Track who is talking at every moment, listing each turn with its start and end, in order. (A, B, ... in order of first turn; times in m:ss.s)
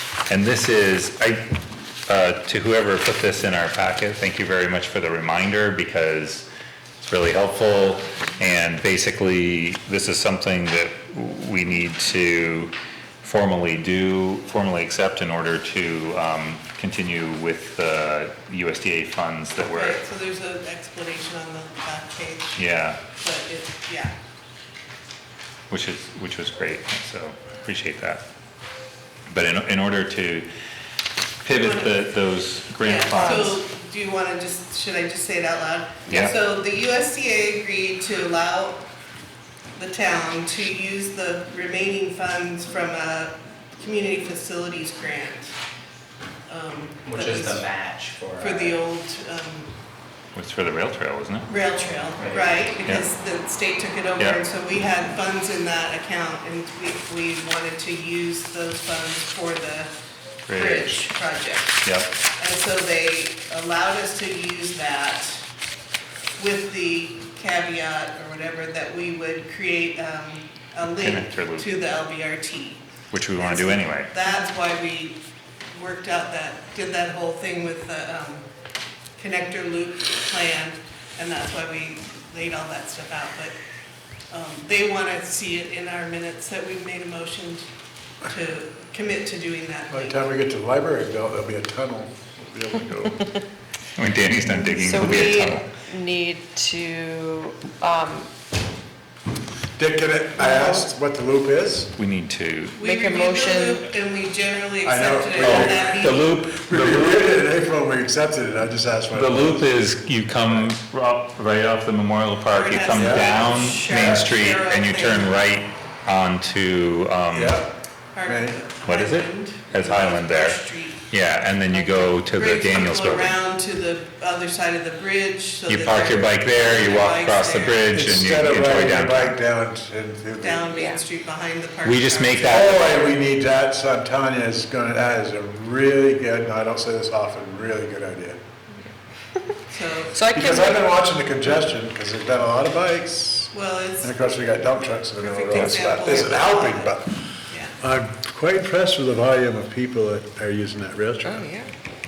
0:00.3-0:01.5 A
0:02.1-0:06.5 A
0:07.0-0:20.0 A
0:19.7-0:22.6 B
0:22.6-0:23.0 A
0:23.1-0:24.1 B
0:25.7-0:28.2 A
0:29.3-0:30.5 A
0:31.4-0:33.6 A
0:31.5-0:32.1 B
0:32.8-0:38.8 B
0:33.2-0:33.5 C
0:36.1-0:36.4 A
0:39.8-0:45.5 B
0:46.5-0:47.7 B
0:47.0-0:48.8 D
0:48.4-0:49.7 B
0:50.3-0:51.5 A
0:51.5-0:59.9 B
0:52.2-0:52.5 D
1:00.5-1:01.0 A
1:00.5-1:01.9 B
1:01.8-1:02.1 A
1:02.4-1:05.4 B
1:06.4-1:12.8 B
1:11.0-1:11.7 A
1:13.1-1:14.1 A
1:13.4-1:15.2 B
1:15.7-1:18.5 B
1:19.2-1:23.5 B
1:24.3-1:27.7 B
1:28.2-1:30.2 B
1:29.9-1:33.2 E
1:33.9-1:35.7 A
1:34.6-1:38.3 C
1:39.8-1:41.9 E
1:40.4-1:40.8 C
1:42.0-1:42.8 A
1:42.8-1:46.3 B
1:42.8-1:43.8 C
1:44.8-1:49.8 E
1:45.4-1:47.3 A
1:49.1-1:57.6 A
1:50.4-1:50.7 E
1:52.5-1:55.4 B
1:52.9-1:53.4 E
1:57.3-1:57.7 E
1:58.1-2:01.1 B
1:58.2-1:58.6 E
1:58.8-2:00.6 A
2:01.1-2:03.4 A
2:02.0-2:07.8 B
2:05.7-2:09.4 A
2:07.9-2:10.7 E
2:10.4-2:12.9 B
2:10.7-2:11.0 C
2:11.8-2:13.2 A
2:12.4-2:18.4 E
2:19.7-2:20.2 B
2:20.1-2:20.8 C
2:20.3-2:27.2 E
2:23.5-2:24.1 B
2:25.2-2:27.0 B
2:27.5-2:27.8 B
2:27.8-2:31.5 E
2:31.2-2:31.7 C